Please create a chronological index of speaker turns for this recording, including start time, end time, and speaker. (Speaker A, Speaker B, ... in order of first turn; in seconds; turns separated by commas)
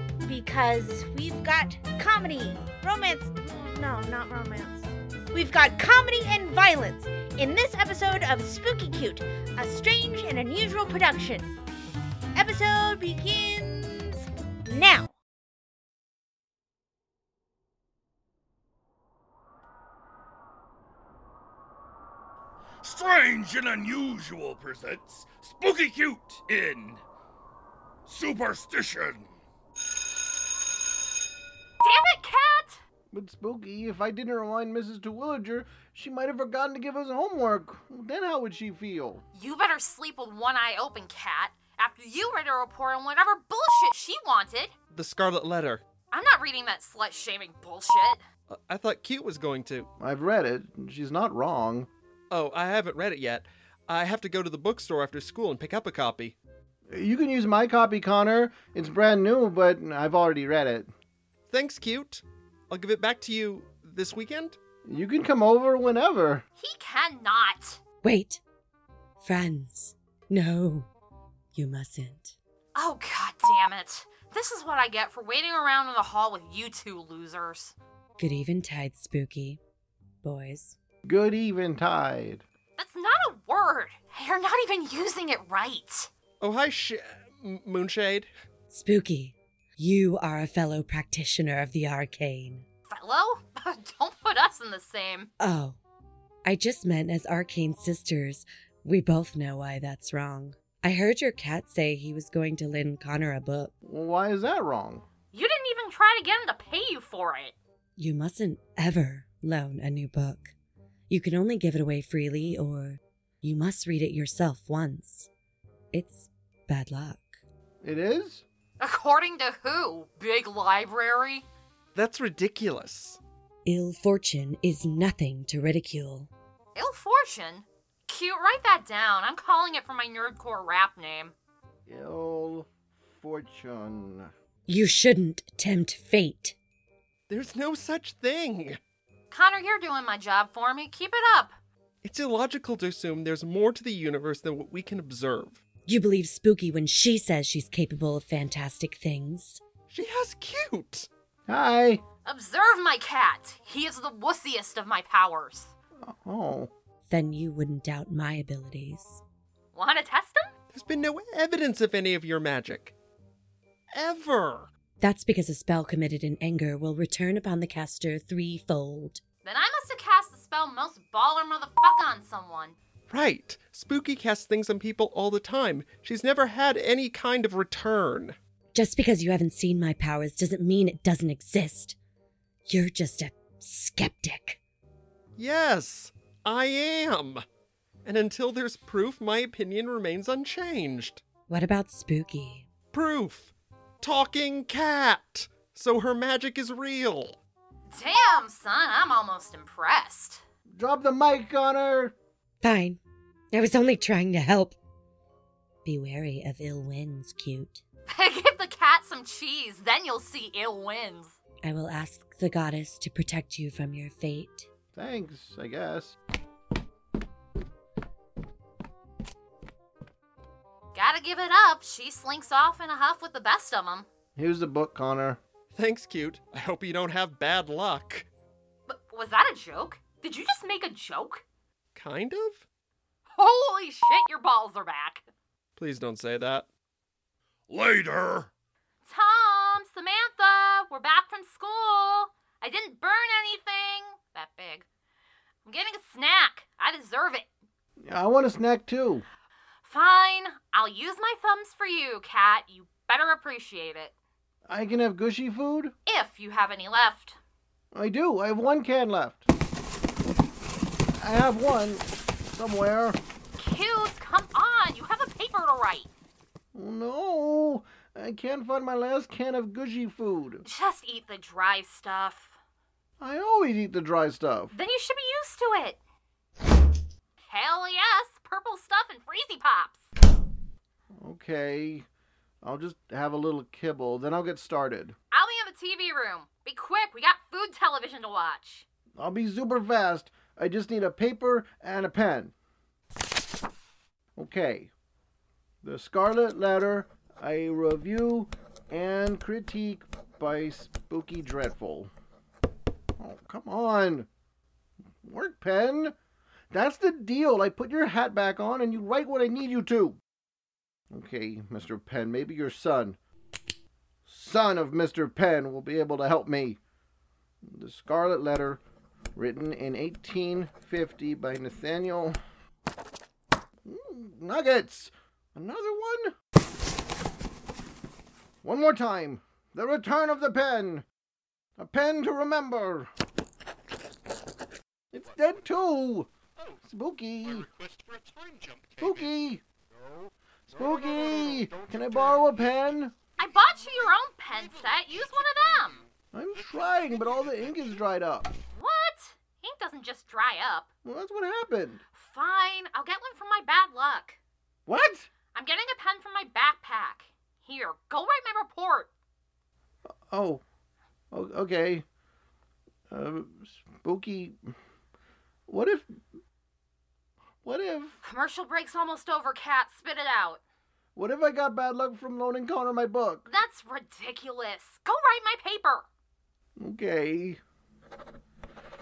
Speaker A: 0.2-11.5, Speaker A: 12.3-15.1, Speaker B: 22.8-27.0, Speaker B: 28.1-29.4, Speaker C: 31.8-32.8, Speaker D: 33.1-39.2, Speaker C: 39.3-44.7, Speaker E: 44.9-45.8, Speaker C: 46.1-48.2, Speaker E: 48.5-49.9, Speaker D: 50.0-51.9, Speaker E: 52.3-56.4, Speaker D: 56.9-60.9, Speaker E: 61.5-64.6, Speaker D: 64.8-66.4, Speaker C: 66.6-67.8, Speaker F: 68.0-68.4, Speaker F: 69.2-70.9, Speaker F: 71.5-72.4, Speaker C: 72.8-77.8, Speaker F: 78.2-79.6, Speaker F: 80.2-80.8, Speaker D: 81.0-82.4, Speaker C: 82.8-86.1, Speaker E: 86.4-88.3, Speaker F: 88.7-92.7, Speaker C: 92.9-95.3, Speaker F: 95.4-95.8, Speaker F: 96.5-103.7, Speaker D: 103.8-105.0, Speaker C: 105.3-107.5, Speaker F: 108.0-110.5, Speaker F: 111.1-115.3, Speaker F: 115.9-117.4, Speaker D: 117.8-118.5, Speaker C: 118.8-121.5, Speaker E: 122.0-123.2, Speaker F: 123.7-126.3, Speaker C: 126.8-131.3, Speaker D: 131.9-134.3, Speaker F: 134.7-136.6, Speaker E: 137.3-138.8, Speaker C: 139.3-141.5, Speaker E: 142.0-145.6, Speaker F: 145.9-149.6, Speaker E: 149.9-151.1, Speaker D: 151.5-152.0, Speaker C: 152.2-155.7, Speaker D: 156.0-156.7, Speaker F: 157.1-159.2, Speaker C: 159.7-160.5, Speaker E: 160.7-162.9, Speaker E: 163.9-164.7, Speaker F: 165.0-169.2, Speaker C: 169.4-172.8, Speaker E: 173.1-178.4, Speaker F: 178.8-182.0, Speaker F: 182.7-184.6, Speaker E: 185.4-187.4, Speaker E: 188.1-191.2, Speaker F: 191.5-192.7, Speaker E: 192.9-197.4, Speaker C: 197.9-200.4, Speaker D: 200.7-202.2, Speaker F: 202.6-203.0, Speaker F: 203.5-204.8, Speaker F: 205.8-207.8, Speaker C: 208.1-211.4, Speaker F: 211.6-214.7, Speaker D: 214.9-216.2, Speaker C: 220.9-224.1, Speaker D: 224.4-225.4, Speaker E: 225.7-228.3, Speaker C: 228.9-231.4, Speaker E: 231.9-232.7, Speaker C: 233.3-235.3, Speaker E: 235.8-236.7, Speaker B: 237.7-238.5, Speaker C: 239.1-244.9, Speaker C: 245.7-247.5, Speaker D: 248.0-249.2, Speaker C: 249.8-254.1, Speaker D: 254.7-255.9, Speaker C: 256.1-257.4, Speaker D: 257.9-259.5, Speaker D: 261.2-263.2, Speaker C: 263.6-266.1, Speaker D: 266.7-270.6, Speaker C: 270.6-272.6, Speaker D: 273.2-274.7, Speaker C: 274.7-276.0, Speaker C: 277.4-280.1, Speaker D: 281.2-282.1, Speaker D: 282.6-285.1, Speaker C: 285.3-288.9, Speaker D: 289.2-292.5, Speaker D: 294.4-294.9, Speaker D: 295.8-302.1, Speaker D: 303.2-304.3, Speaker D: 305.2-306.1, Speaker D: 306.7-310.2, Speaker D: 311.1-313.2, Speaker D: 314.3-316.8, Speaker D: 317.6-318.8, Speaker D: 319.4-322.4, Speaker D: 323.9-326.3, Speaker D: 328.6-331.1, Speaker D: 331.8-333.1, Speaker D: 335.1-336.3, Speaker D: 336.8-337.7, Speaker D: 339.0-339.6, Speaker D: 340.7-343.1, Speaker C: 343.4-346.0, Speaker D: 346.3-348.5, Speaker C: 348.7-350.9, Speaker D: 351.0-352.0, Speaker C: 352.1-354.4, Speaker D: 354.9-355.3, Speaker C: 355.5-359.1, Speaker D: 360.3-360.6, Speaker D: 361.3-362.0, Speaker D: 363.1-364.6, Speaker D: 365.7-366.1, Speaker D: 367.6-368.2, Speaker C: 368.2-370.6, Speaker D: 371.1-373.4, Speaker C: 373.4-376.1, Speaker D: 376.8-377.6